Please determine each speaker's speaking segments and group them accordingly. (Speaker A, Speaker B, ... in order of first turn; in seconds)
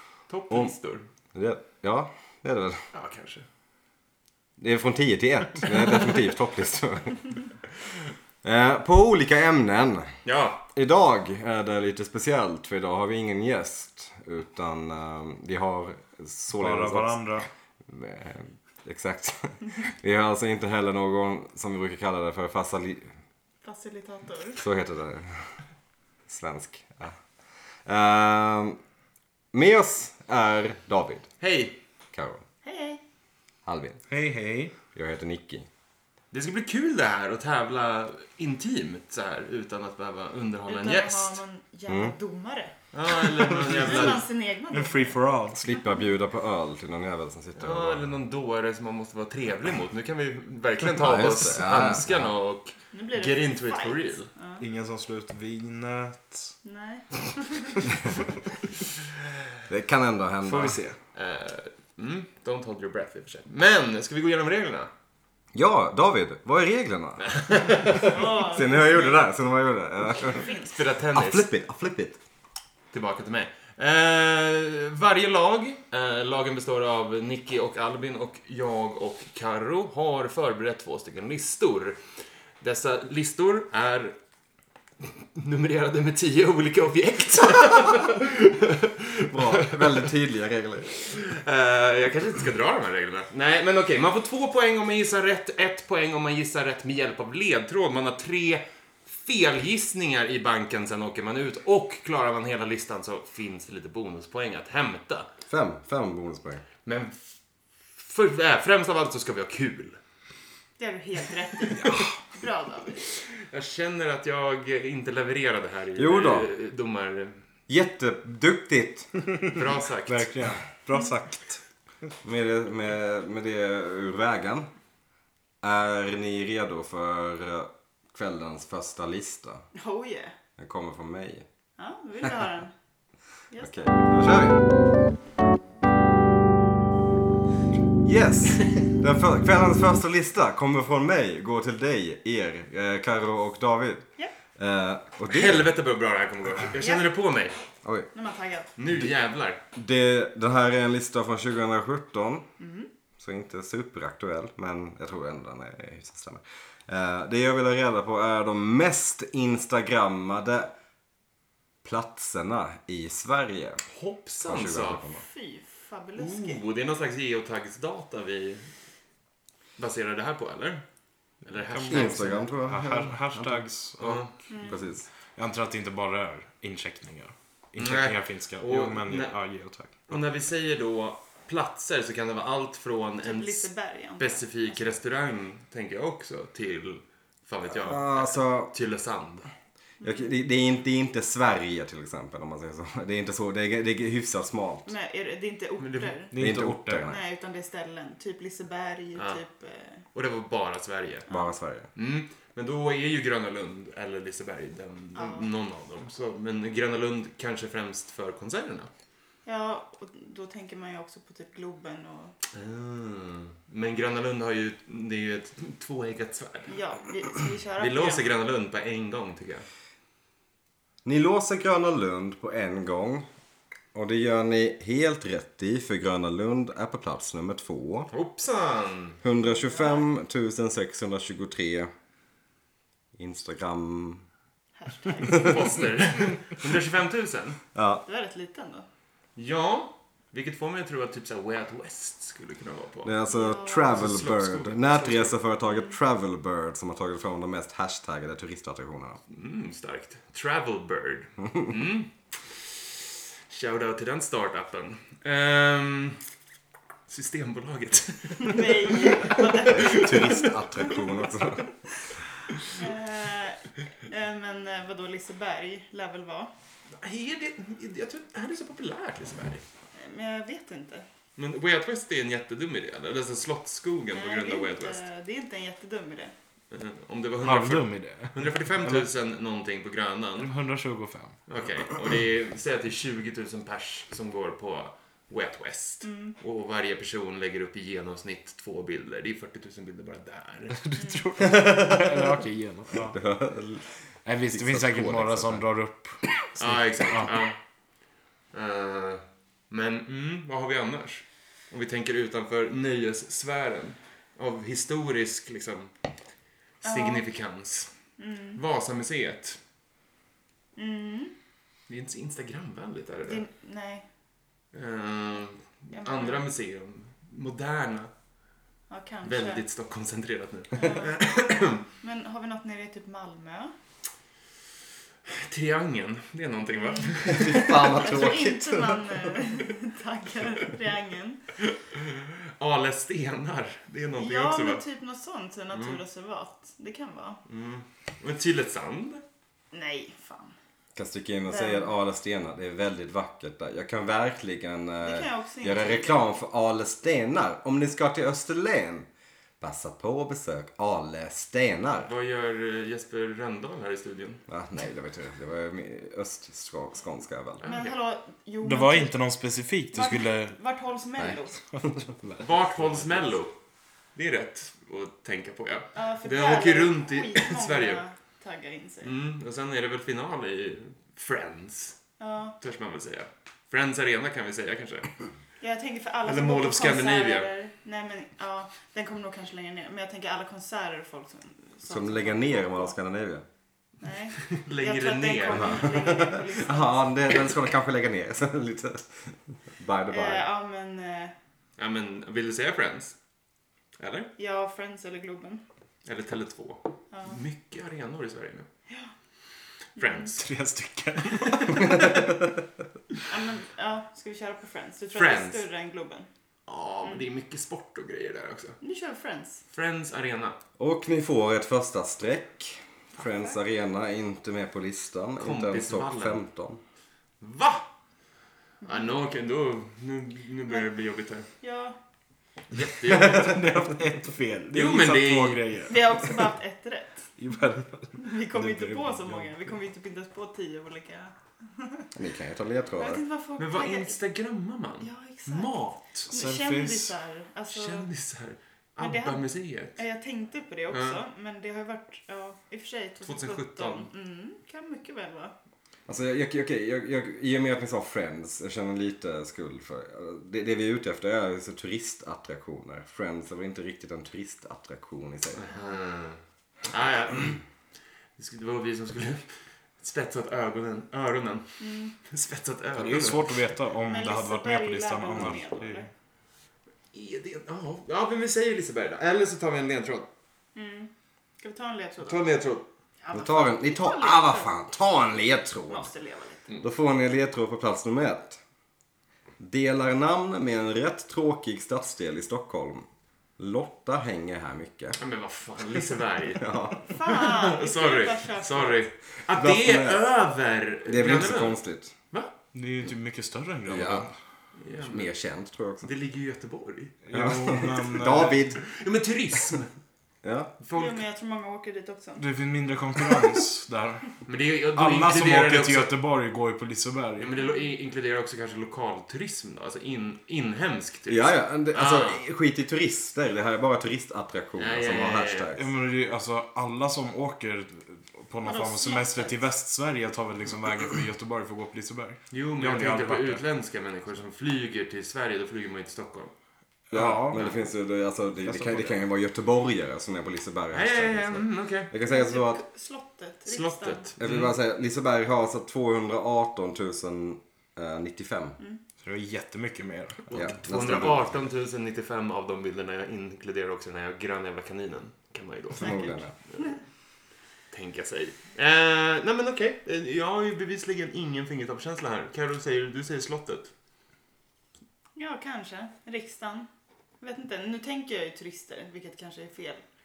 Speaker A: 0.3-1.1, 2.9-3.5, 10.2-10.6, 31.4-31.8, 36.3-41.4, 42.9-44.2, 47.6-54.3, 61.1-64.9, 67.2-68.2, 70.4-71.5, 72.9-84.2, 85.0-90.1, 91.0-105.3, 106.8-107.2, 108.0-110.0, 113.2-117.4, 119.5-120.4, 145.3-147.6, 148.8-149.6, 163.9-165.0, 166.2-168.7, 169.8-170.8, 171.4-172.5, 174.0-174.3, 177.8-179.4, 180.1-189.5, 195.8-196.1, 199.2-199.4, 200.1-201.3, 201.9-208.9, 212.5-216.8, 217.8-219.7, 228.1-229.2, 235.3-237.6, 239.3-243.1, 243.9-245.3, 249.3-252.9, 253.5-256.2, 257.1-260.4, 266.9-269.6, 271.4-275.0, 276.7-280.5, 281.5-290.8, 296.6-297.6, 298.5-305.9, 306.8-307.9, 308.6-309.6, 311.9-313.4, 314.7-318.1, 319.2-321.8, 325.2-327.9, 331.6-334.8, 335.7-336.0, 337.5-339.2, 352.1-354.4, 357.6-357.9, 362.4-363.5, 364.1-368.0, 369.0-372.0, 372.6-375.2, 376.2-377.5, 384.5-386.1, 391.8-393.1, 394.0-394.3, 396.0-398.7, 400.0-400.5, 405.1-405.6, 406.7-408.8, 409.7-410.6, 415.4-416.4, 417.4-417.9, 418.8-421.5, 422.7-423.6, 424.7-425.9, 433.6-436.3, 437.7-440.0, 440.9-441.2, 443.2-444.1, 455.6-457.6, 458.4-463.7, 467.1-470.3, 472.2-472.9, 485.2-492.5, 494.8-495.3, 496.0-497.2, 498.8-499.9, 500.8-501.2, 504.4-506.1, 507.4-512.4, 514.8-515.7, 522.5-526.5, 527.5-527.8, 530.9-532.1, 533.6-534.7, 540.5-547.0, 547.9-553.9
Speaker B: 1.3-2.8, 4.6-7.4, 8.4-10.2, 10.7-17.2, 17.9-23.1, 24.6-25.6, 26.2-27.2, 27.9-28.8, 29.5-31.3, 32.1-32.4, 33.6-34.0, 34.9-35.7, 41.9-42.1, 45.5-48.1, 50.9-52.3, 59.7-60.8, 65.5-67.4, 68.4-70.5, 71.1-72.2, 89.3-91.1, 105.5-106.7, 116.0-116.5, 117.7-119.1, 122.2-124.7, 125.6-129.7, 130.6-131.4, 133.6-134.6, 138.0-145.7, 147.8-148.1, 149.7-152.4, 153.2-160.7, 161.8-163.8, 164.4-165.2, 171.9-173.7, 174.6-175.1, 187.7-188.7, 190.0-194.9, 196.3-197.2, 201.3-201.9, 221.0-223.3, 223.9-228.1, 229.2-231.9, 233.2-234.2, 237.7-238.0, 243.0-249.2, 259.7-261.7, 291.6-292.1, 292.9-293.9, 294.5-295.6, 327.2-329.1, 340.9-349.1, 349.6-352.1, 354.5-357.6, 381.9-383.4, 385.5-390.5, 410.8-416.8, 432.1-433.2, 446.1-455.6, 473.3-476.1, 476.8-478.6, 479.6-483.1, 483.6-485.2, 486.6-487.0, 489.5-490.2, 491.0-492.1, 493.9-494.3, 495.0-496.1, 497.3-498.8, 500.4-500.7, 511.3-515.9, 527.1-532.8, 534.4-538.8, 540.5-541.5, 546.0-546.5
Speaker C: 16.6-17.5, 34.1-34.7, 43.6-45.7, 54.6-56.5, 60.4-61.0, 111.7-112.2, 120.1-121.6, 171.6-174.2, 175.3-180.0, 196.3-197.1, 277.4-279.1, 280.4-281.4, 290.8-293.2, 294.2-297.3, 358.6-360.6, 361.8-363.2, 400.4-402.4, 423.2-426.3, 427.4-429.6, 436.3-437.1, 462.9-466.1, 492.7-494.3, 497.2-498.6, 502.4-504.4, 504.9-507.5, 515.7-523.6, 527.1-527.6, 528.6-529.2, 539.2-540.6
Speaker D: 23.6-24.6, 32.6-33.0, 40.7-45.2, 52.9-54.6, 56.6-57.9, 68.0-69.2, 70.2-70.7, 110.8-113.2, 129.8-130.3, 131.8-132.7, 133.5-133.9, 146.8-147.0, 148.1-148.7, 152.6-152.9, 165.2-166.6, 174.5-174.8, 183.2-185.0, 190.0-190.3, 194.8-196.3, 197.1-200.0, 201.3-201.5, 205.2-205.5, 209.4-212.3, 216.7-218.2, 229.5-230.1, 234.8-235.6, 238.1-238.8, 243.2-244.1, 258.4-260.9, 262.7-266.5, 270.0-271.1, 274.1-276.3, 286.0-286.4, 306.8-307.2, 308.2-308.6, 310.8-311.3, 313.2-314.1, 315.9-316.4, 318.9-319.6, 320.8-323.7, 326.8-331.4, 334.2-337.4, 339.7-340.5, 341.5-341.9, 345.0-346.3, 357.6-359.1, 359.9-361.6, 365.9-369.1, 372.2-372.6, 375.6-382.9, 384.0-387.1, 390.1-391.3, 394.4-395.6, 397.1-397.4, 400.0-400.2, 403.3-406.3, 408.8-409.6, 413.2-413.5, 418.8-419.1, 421.6-422.0, 425.9-427.3, 428.1-432.1, 433.0-434.2, 435.0-438.1, 439.0-445.5, 461.8-462.1, 464.1-466.1, 470.8-472.6, 473.2-474.7, 475.9-476.6, 487.1-489.0, 500.9-502.4, 518.6-519.6, 532.2-534.3, 546.0-546.3, 555.4-556.9, 557.4-560.0